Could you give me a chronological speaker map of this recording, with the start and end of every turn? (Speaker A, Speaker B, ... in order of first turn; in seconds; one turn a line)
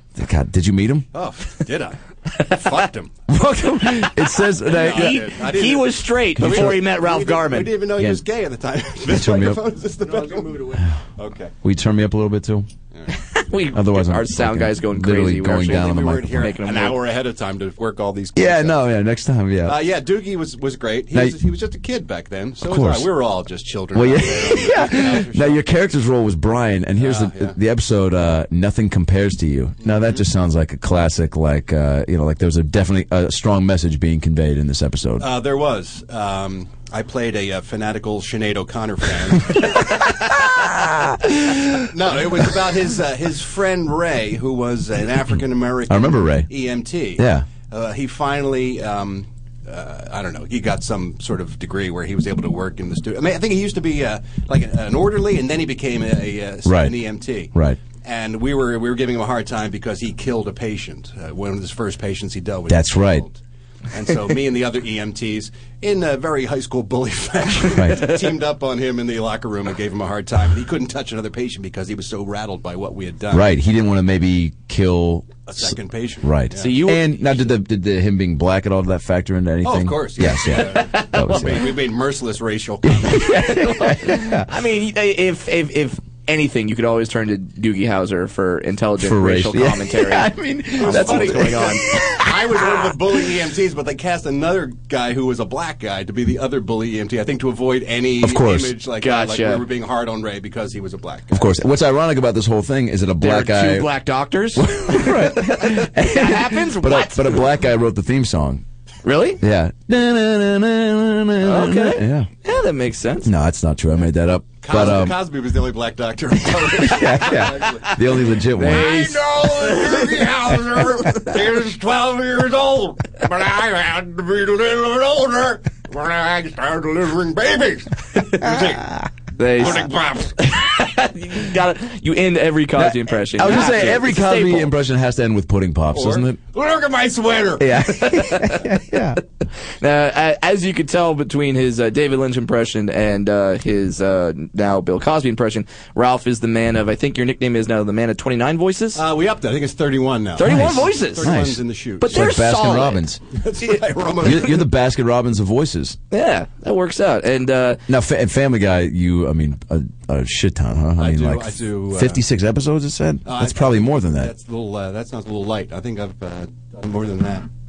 Speaker A: 0.1-1.1
Speaker B: 1.1-3.1
Speaker A: 3.3-5.3
Speaker C: 3.8-4.1
Speaker C: 4.7-7.8
Speaker B: 4.7-11.5
Speaker A: 6.4-6.8
Speaker A: 8.0-8.2
Speaker A: 9.1-9.6
Speaker A: 11.6-12.7
Speaker C: 13.1-17.0
Speaker A: 13.7-16.6
Speaker B: 15.6-18.9
Speaker A: 18.4-19.8
Speaker B: 19.6-25.6
Speaker A: 22.6-23.1
Speaker A: 23.9-35.3
Speaker B: 27.0-27.6
Speaker B: 29.8-30.2
Speaker B: 35.2-40.1
Speaker A: 40.4-41.9
Speaker B: 41.7-63.4
Speaker A: 45.9-46.5
Speaker A: 47.2-47.5
Speaker A: 56.6-57.8
Speaker A: 62.7-63.2
Speaker B: 63.9-73.5
Speaker A: 67.7-68.1
Speaker A: 73.3-81.7
Speaker B: 75.5-76.8
Speaker C: 76.6-77.2
Speaker B: 79.6-83.8
Speaker C: 80.9-81.5
Speaker A: 82.9-84.5
Speaker C: 83.3-92.0
Speaker A: 89.0-92.9
Speaker B: 90.8-101.6
Speaker A: 98.2-98.8
Speaker C: 99.0-99.7
Speaker A: 101.3-103.9
Speaker C: 103.2-107.5
Speaker A: 104.5-108.6
Speaker C: 109.0-109.4
Speaker A: 109.4-112.3
Speaker C: 111.4-113.3
Speaker A: 113.2-115.2
Speaker B: 114.6-129.0
Speaker A: 116.7-119.0
Speaker C: 118.6-120.0
Speaker C: 129.4-134.7
Speaker B: 129.6-130.4
Speaker A: 132.8-136.4
Speaker B: 133.5-133.8
Speaker B: 135.9-138.2
Speaker A: 137.6-139.2
Speaker C: 138.0-138.6
Speaker C: 139.8-149.0
Speaker B: 148.9-152.4
Speaker C: 150.4-151.3
Speaker A: 150.4-153.2
Speaker C: 152.0-153.0
Speaker B: 153.3-154.7
Speaker A: 154.2-156.0
Speaker C: 156.1-157.8
Speaker A: 157.9-164.3
Speaker B: 161.0-162.2
Speaker B: 163.2-167.5